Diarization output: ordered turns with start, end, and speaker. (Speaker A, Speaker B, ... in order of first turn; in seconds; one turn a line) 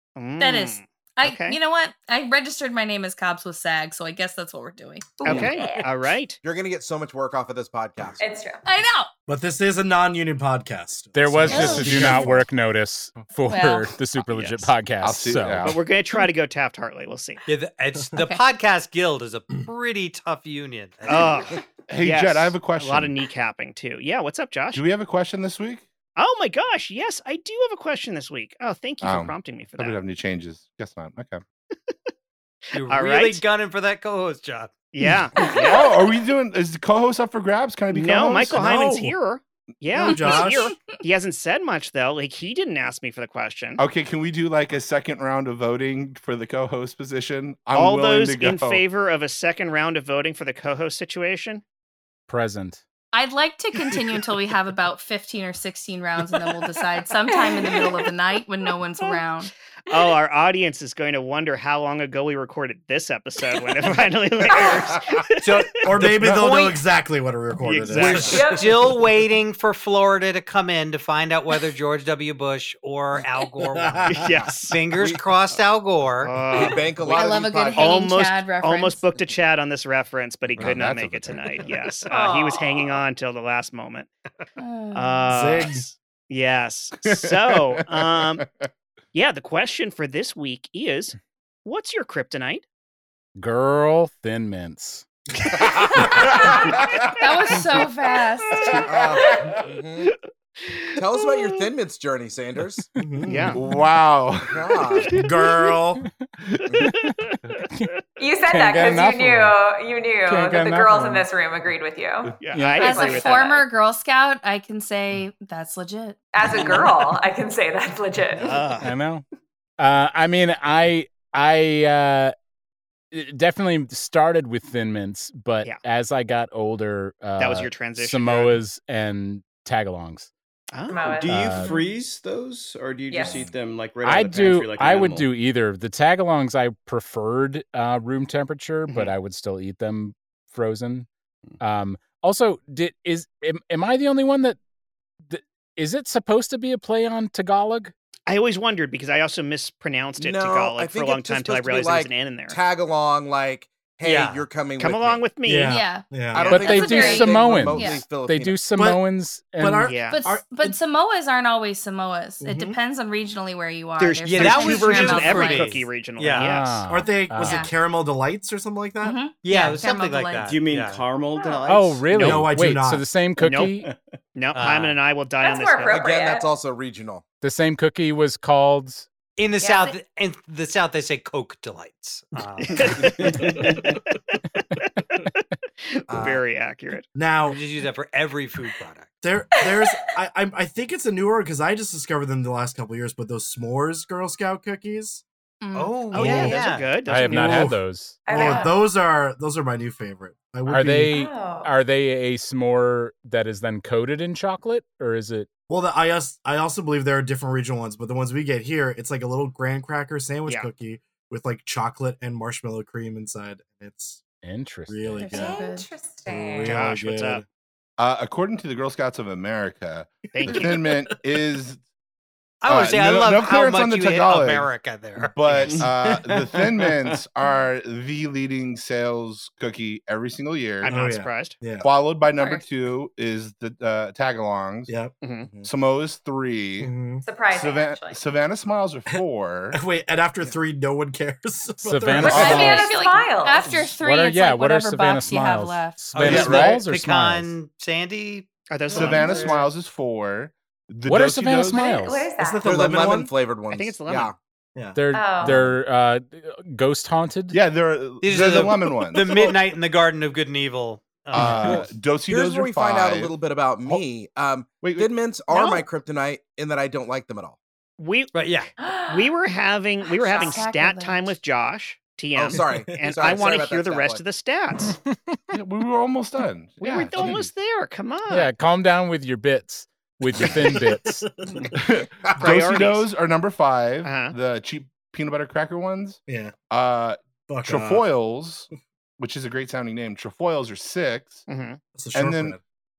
Speaker A: 0.2-1.6
Speaker B: 0.4-5.2
Speaker C: 5.2-5.9
Speaker A: 5.2-6.4
Speaker D: 6.4-8.3
Speaker C: 8.2-8.6
Speaker B: 8.6-9.1
Speaker E: 9.3-12.5
Speaker F: 11.1-15.8
Speaker B: 11.5-12.4
Speaker B: 13.5-13.9
Speaker A: 14.3-14.7
Speaker G: 15.0-15.8
Speaker A: 15.6-17.4
Speaker H: 17.5-21.6
Speaker B: 18.1-18.4
Speaker A: 21.1-24.8
Speaker G: 21.9-23.1
Speaker G: 24.7-25.9
Speaker A: 26.2-30.0
Speaker G: 29.0-31.4
Speaker H: 32.7-34.8
Speaker A: 32.8-33.4
Speaker A: 34.9-35.9
Speaker G: 35.0-38.7
Speaker B: 35.4-35.9
Speaker A: 37.9-43.8
Speaker E: 38.6-39.1
Speaker E: 40.0-40.7
Speaker B: 40.0-40.8
Speaker G: 43.8-48.9
Speaker A: 47.7-51.6
Speaker F: 52.3-52.8
Speaker B: 53.1-59.5
Speaker A: 59.9-65.7
Speaker H: 65.4-66.8
Speaker E: 65.8-68.6
Speaker A: 67.6-68.6
Speaker H: 68.0-76.3
Speaker C: 68.3-68.7
Speaker E: 73.7-74.3
Speaker A: 74.1-74.8
Speaker A: 76.2-76.8
Speaker D: 76.5-78.0
Speaker B: 77.1-79.0
Speaker A: 77.8-84.1
Speaker G: 80.6-81.8
Speaker C: 82.1-83.0
Speaker B: 84.6-85.4
Speaker A: 84.9-88.4
Speaker E: 85.3-85.9
Speaker G: 87.0-88.7
Speaker A: 89.1-92.7
Speaker F: 93.4-95.0
Speaker B: 95.9-98.8
Speaker G: 96.6-97.0
Speaker G: 98.7-99.6
Speaker D: 98.8-100.1
Speaker A: 100.6-101.0
Speaker D: 101.0-102.9
Speaker E: 103.0-103.6
Speaker A: 103.3-103.6
Speaker G: 103.5-105.0
Speaker D: 104.5-105.2
Speaker E: 105.1-106.0
Speaker F: 106.8-107.9
Speaker A: 106.8-107.3
Speaker C: 108.2-113.7
Speaker F: 108.4-109.6
Speaker F: 110.2-111.3
Speaker F: 112.4-113.1
Speaker A: 112.4-113.6
Speaker B: 112.8-116.7
Speaker C: 116.3-118.8
Speaker A: 118.4-118.9
Speaker F: 118.8-119.2
Speaker F: 119.8-122.3
Speaker F: 123.1-130.3
Speaker A: 127.4-128.6
Speaker A: 130.7-131.7
Speaker C: 130.9-131.8
Speaker I: 131.2-135.3
Speaker F: 131.3-131.8
Speaker C: 133.1-133.4
Speaker D: 133.2-133.5
Speaker F: 134.0-141.1
Speaker A: 138.9-139.1
Speaker F: 141.6-144.6
Speaker F: 145.3-147.9
Speaker A: 148.3-152.6
Speaker D: 150.2-155.2
Speaker H: 154.0-154.5
Speaker A: 154.8-155.8
Speaker E: 155.4-156.6
Speaker B: 155.7-156.1
Speaker D: 156.3-158.7
Speaker F: 156.5-159.9
Speaker C: 156.5-157.3
Speaker B: 156.7-158.1
Speaker E: 158.7-159.0
Speaker E: 159.6-160.8
Speaker A: 159.9-160.2
Speaker B: 160.0-165.8
Speaker E: 162.4-162.8
Speaker A: 164.0-166.9
Speaker H: 164.2-166.5
Speaker F: 166.3-167.7
Speaker E: 166.9-169.2
Speaker B: 167.4-167.7
Speaker B: 169.0-170.5
Speaker H: 169.4-171.1
Speaker I: 170.4-172.2
Speaker C: 171.3-171.8
Speaker F: 171.7-173.9
Speaker E: 172.1-173.1
Speaker A: 173.4-173.7
Speaker A: 174.3-176.1
Speaker H: 174.5-175.0
Speaker C: 175.4-176.5
Speaker D: 175.9-177.2
Speaker F: 177.4-179.1
Speaker H: 179.4-183.2
Speaker B: 179.6-179.9
Speaker A: 182.7-187.0
Speaker I: 183.3-183.8
Speaker D: 186.1-186.4
Speaker E: 187.2-187.6
Speaker H: 187.5-189.1
Speaker E: 189.2-195.2
Speaker C: 189.6-190.1
Speaker B: 195.6-196.2
Speaker H: 195.7-196.9
Speaker A: 196.1-197.7
Speaker F: 196.2-198.2
Speaker E: 196.2-196.5
Speaker E: 197.2-201.1
Speaker C: 198.3-198.9
Speaker F: 200.7-205.5
Speaker C: 201.1-201.7
Speaker E: 205.7-214.2
Speaker F: 214.4-215.5
Speaker E: 214.9-215.7
Speaker B: 215.2-215.9
Speaker C: 215.3-216.8
Speaker E: 216.3-217.4
Speaker A: 216.6-217.4
Speaker G: 218.0-221.8
Speaker A: 220.3-220.7
Speaker E: 220.4-221.1
Speaker H: 222.6-225.9
Speaker G: 222.7-230.9
Speaker E: 225.7-227.0
Speaker A: 230.8-231.6
Speaker E: 230.9-231.9
Speaker G: 231.8-234.9
Speaker E: 234.9-235.1
Speaker A: 235.2-235.5
Speaker G: 235.6-236.9
Speaker E: 236.8-237.2
Speaker C: 237.2-238.2
Speaker G: 237.5-239.8
Speaker E: 239.1-242.6
Speaker F: 241.8-242.9
Speaker C: 242.2-243.8
Speaker G: 242.2-242.8
Speaker B: 242.2-246.6
Speaker F: 243.7-247.5
Speaker H: 246.1-248.5
Speaker G: 246.2-246.8
Speaker A: 248.7-249.6
Speaker G: 248.9-251.8
Speaker C: 248.9-249.5
Speaker F: 251.1-252.3
Speaker C: 251.7-252.7
Speaker E: 252.4-253.3
Speaker D: 252.6-254.3
Speaker A: 253.7-254.3
Speaker E: 254.8-255.5
Speaker F: 254.9-257.6
Speaker C: 255.1-255.7
Speaker G: 257.5-259.4
Speaker H: 258.2-261.9
Speaker E: 259.2-259.5
Speaker G: 261.3-264.0
Speaker D: 262.3-267.6
Speaker G: 264.8-265.1
Speaker B: 265.5-265.8
Speaker A: 268.0-268.3
Speaker H: 268.3-268.7
Speaker C: 268.8-269.3
Speaker A: 269.1-275.0
Speaker C: 270.2-270.7
Speaker B: 270.3-271.3
Speaker D: 272.4-274.2
Speaker E: 272.6-272.9
Speaker G: 275.5-277.5
Speaker A: 276.8-278.5
Speaker F: 278.3-281.3
Speaker E: 280.4-281.5
Speaker G: 281.7-288.7
Speaker A: 282.4-283.1
Speaker A: 284.0-284.4
Speaker E: 286.3-286.6
Speaker E: 287.5-288.1
Speaker G: 289.2-291.4
Speaker A: 291.5-291.8
Speaker E: 291.9-292.6
Speaker G: 292.1-292.6